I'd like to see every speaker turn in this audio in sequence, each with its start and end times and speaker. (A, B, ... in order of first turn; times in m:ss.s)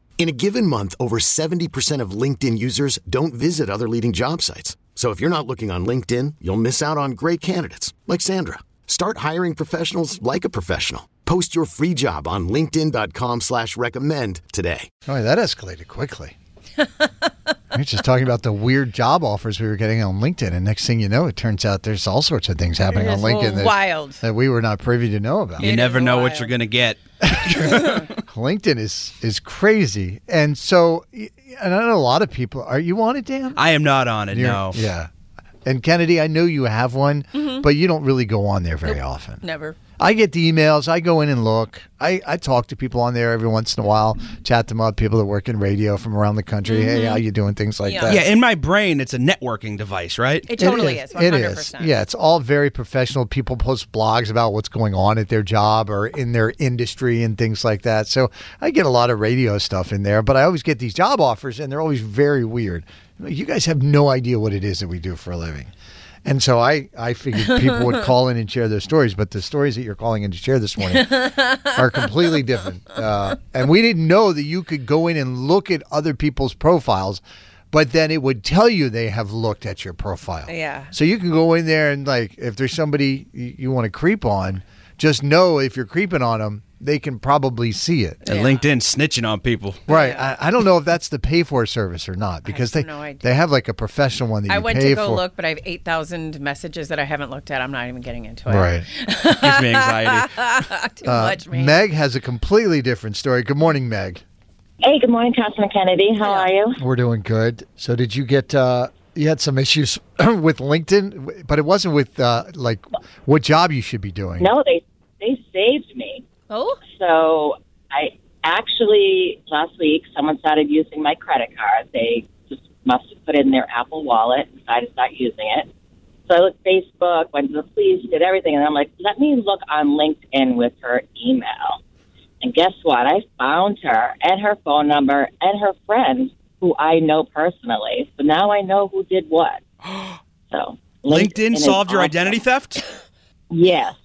0:00.2-0:14.9 A
0:15.1-0:16.4 B
0:17.7-0:25.7 B
0:22.9-0:24.2 C
0:25.6-0:28.0 D
0:25.6-0:26.5 C
0:27.2-0:27.7 B
0:28.3-0:33.6 B
0:33.6-0:34.8 D
0:34.3-0:35.1 B
0:35.6-0:39.4 B
0:37.4-0:37.6 C
0:38.9-0:39.8 C
0:40.0-0:48.3 B
0:46.6-0:47.2 C
0:47.8-0:48.2 C
0:48.0-0:50.5 D
0:50.5-0:51.9 C
0:50.6-1:05.7 B
1:06.2-1:28.2 B
1:11.0-1:11.7 C
1:20.5-1:20.9 C
1:28.2-1:29.9 D
1:28.3-1:28.7 C
1:29.9-1:30.3 C
1:29.9-1:35.2 B
1:32.4-1:33.4 C
1:34.5-1:41.8 C
1:38.5-1:38.8 B
1:39.3-1:40.4 D
1:41.0-1:44.2 B
1:44.8-1:46.8 E
1:46.2-1:46.5 C
1:46.8-1:54.5 B
1:54.4-1:56.2 E
1:56.5-1:56.8 C
1:56.9-2:05.7 E
2:06.3-2:11.8 E
2:12.4-2:19.6 E
2:19.9-2:20.2 D
2:20.5-2:22.4 E
2:21.1-2:22.8 D
2:23.5-2:24.0 E